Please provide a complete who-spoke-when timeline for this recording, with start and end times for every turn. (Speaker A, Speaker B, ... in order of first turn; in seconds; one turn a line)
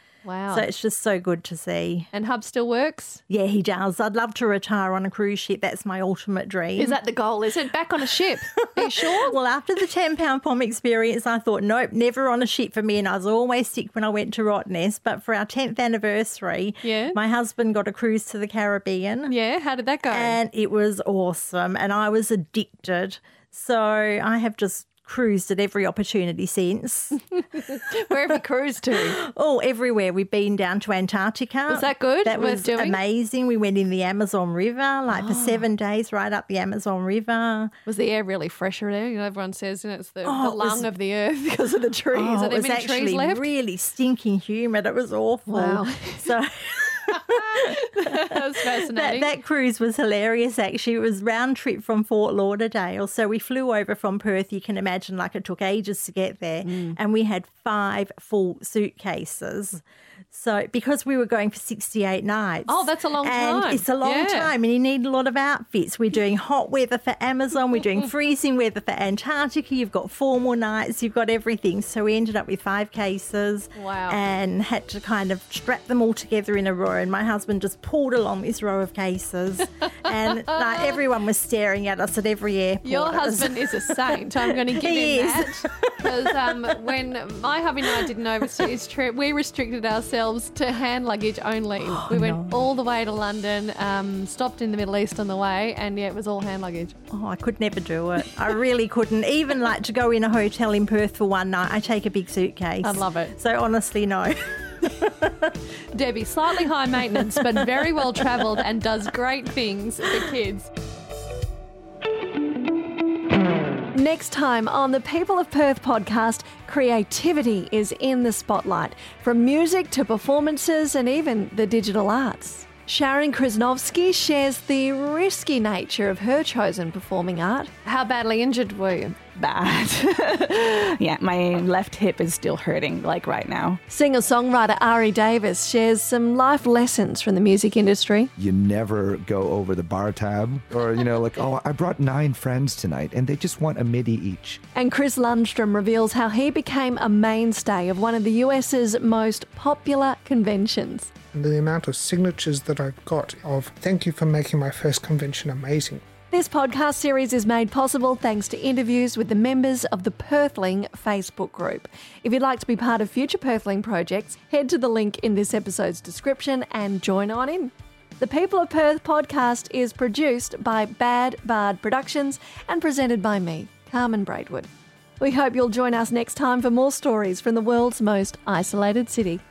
Speaker A: 0.2-0.7
Speaker B: 0.5-2.1
Speaker A: 2.1-3.2
Speaker B: 3.3-7.0
Speaker A: 6.8-9.4
Speaker B: 8.1-19.3
Speaker A: 16.8-17.2
Speaker A: 19.3-20.4
Speaker B: 20.1-27.8
Speaker A: 27.5-29.2
Speaker B: 28.9-37.7
Speaker A: 31.7-33.0
Speaker A: 35.1-35.7
Speaker A: 37.9-43.5
Speaker B: 40.2-40.9
Speaker B: 42.1-86.5
Speaker A: 45.5-46.3
Speaker A: 47.1-49.3
Speaker A: 56.6-57.0
Speaker A: 62.7-64.5
Speaker A: 73.8-74.2
Speaker A: 82.8-97.0
Speaker B: 91.8-92.6
Speaker B: 97.1-105.5
Speaker A: 102.8-103.3
Speaker A: 105.9-110.7
Speaker B: 107.2-107.6
Speaker B: 108.2-108.5
Speaker C: 114.0-127.8
Speaker A: 127.8-129.2
Speaker D: 129.4-133.8
Speaker C: 133.9-137.4
Speaker A: 137.5-138.3
Speaker E: 138.4-144.6
Speaker C: 144.8-151.0
Speaker F: 151.3-156.0
Speaker C: 156.3-174.7
Speaker C: 175.2-178.3
Speaker A: 178.3-179.4